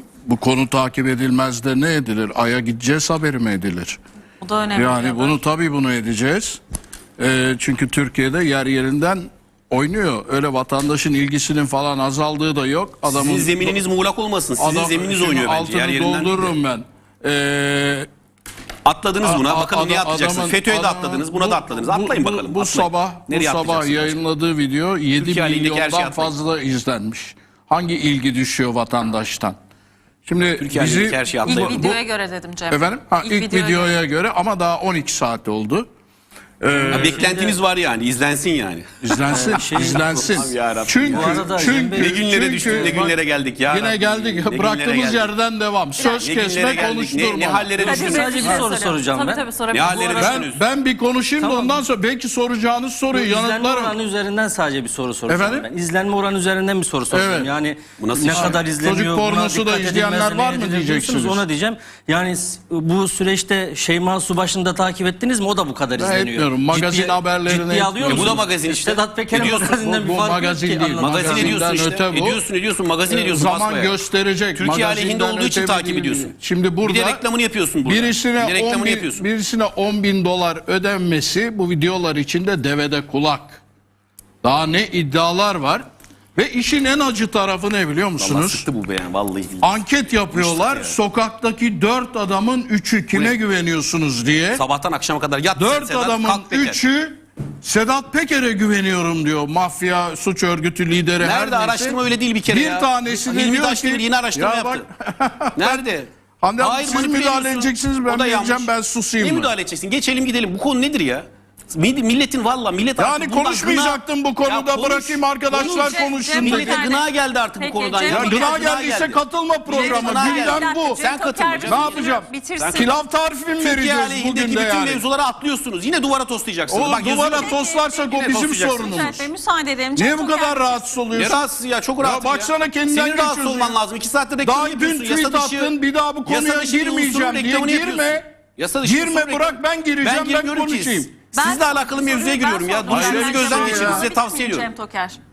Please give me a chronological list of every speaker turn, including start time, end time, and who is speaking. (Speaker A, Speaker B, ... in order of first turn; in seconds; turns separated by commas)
Speaker A: 0.2-4.0, Speaker B: 4.4-5.4, Speaker A: 4.8-6.6, Speaker A: 7.2-13.8, Speaker C: 13.1-16.5, Speaker A: 14.6-18.1, Speaker C: 18.8-24.2, Speaker A: 19.2-29.6, Speaker C: 25.2-26.3, Speaker A: 30.2-32.0, Speaker C: 30.6-31.9, Speaker B: 31.4-34.0, Speaker A: 32.7-35.9, Speaker A: 36.6-37.2, Speaker D: 36.9-37.5, Speaker C: 36.9-45.3, Speaker A: 39.0-43.0, Speaker D: 39.3-40.3, Speaker D: 41.0-43.1, Speaker A: 43.7-47.7, Speaker B: 46.0-46.3, Speaker C: 46.2-48.6, Speaker D: 47.8-49.4, Speaker B: 47.8-50.4, Speaker C: 49.7-50.6, Speaker A: 50.2-54.0, Speaker D: 51.4-51.8, Speaker D: 53.1-71.6, Speaker A: 55.3-55.7, Speaker A: 57.1-57.5, Speaker C: 58.0-58.6, Speaker A: 58.3-61.4, Speaker A: 66.0-68.4, Speaker C: 68.0-69.8, Speaker A: 69.7-72.4, Speaker C: 70.9-74.0, Speaker A: 73.1-77.2, Speaker C: 74.5-79.2, Speaker A: 77.8-83.6, Speaker A: 84.4-85.8, Speaker A: 86.3-88.7, Speaker C: 88.2-89.7, Speaker A: 89.6-94.6, Speaker C: 90.3-91.0, Speaker C: 94.5-96.8, Speaker A: 95.6-105.8, Speaker C: 101.2-104.8, Speaker C: 105.6-123.0, Speaker A: 106.4-109.5, Speaker A: 113.0-116.8, Speaker B: 115.6-118.6, Speaker A: 118.1-121.0, Speaker B: 119.8-122.9, Speaker A: 121.7-125.0, Speaker C: 123.6-129.1, Speaker A: 126.7-129.2, Speaker B: 127.0-128.1, Speaker B: 128.8-130.8, Speaker A: 129.9-131.4, Speaker C: 131.1-135.7, Speaker A: 132.0-133.8, Speaker A: 134.4-138.2, Speaker C: 136.2-144.7, Speaker A: 138.8-141.1, Speaker B: 141.3-145.2, Speaker A: 142.9-144.1